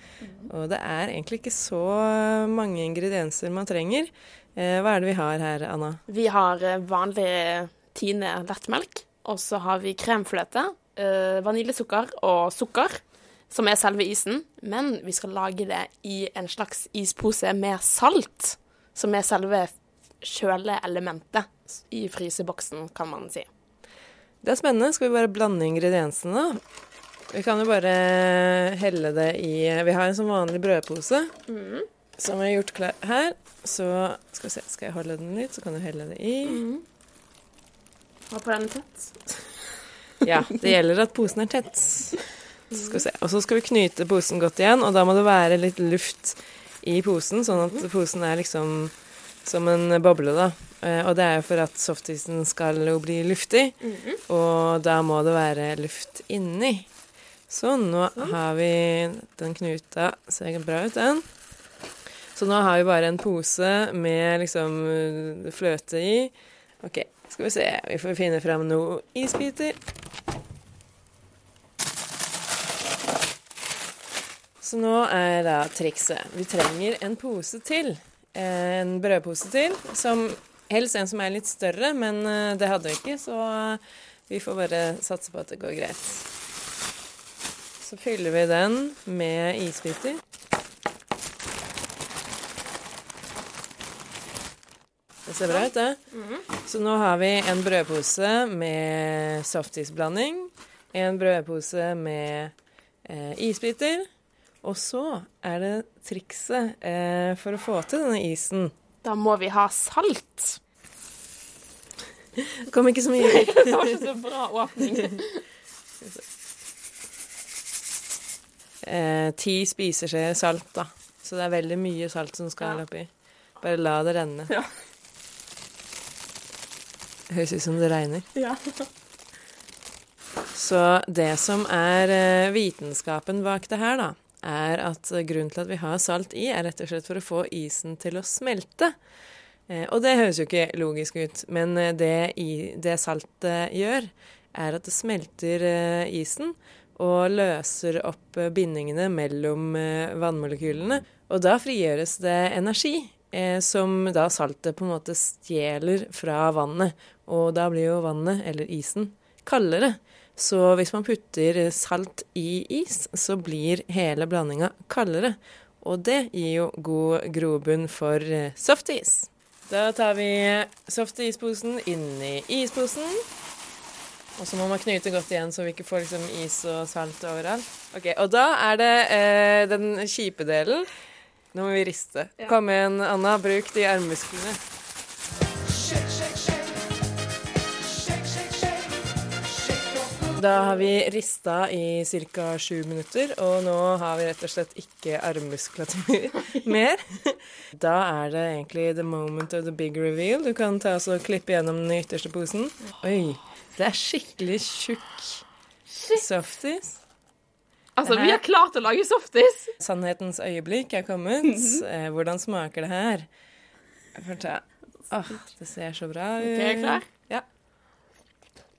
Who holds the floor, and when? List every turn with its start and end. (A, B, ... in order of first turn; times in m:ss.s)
0:00.2-0:00.5 A
0:00.5-0:06.0 B
0:06.1-0:23.5 A
0:24.4-0:26.6 B
0:27.3-0:31.3 B
0:31.5-0:31.9 A
0:32.2-0:36.6 B
0:36.4-0:36.8 A
0:38.3-0:39.4 A
0:40.2-0:42.2 B
0:40.3-0:40.7 A
0:42.7-0:43.1 A
0:42.7-0:56.9 B
0:47.5-0:47.9 A
0:53.8-0:54.2 A
0:57.5-1:01.3 B
1:02.3-1:09.8 B
1:14.6-1:26.3 B
1:27.8-1:30.2 B
1:35.3-1:36.0 B
1:35.4-1:36.5 A
1:36.6-1:42.5 B
1:43.1-1:44.1 B
1:44.6-1:48.7 B
1:49.0-1:50.6 A
1:52.7-1:54.0 B
1:52.7-1:55.4 A
1:58.8-2:04.5 B
2:02.6-2:02.8 A
2:07.3-2:08.3 B
2:08.3-2:08.9 A
2:10.5-2:19.0 B
2:19.7-2:53.2 B
2:54.4-3:00.9 B
3:01.5-3:04.6 B
3:10.4-3:25.4 B
3:25.9-3:26.3 A
3:26.2-3:27.0 B
3:28.0-3:29.7 A
3:28.0-3:28.4 B
3:29.8-3:33.3 B
3:31.4-3:31.8 A
3:34.2-3:37.4 B
3:36.4-3:37.1 A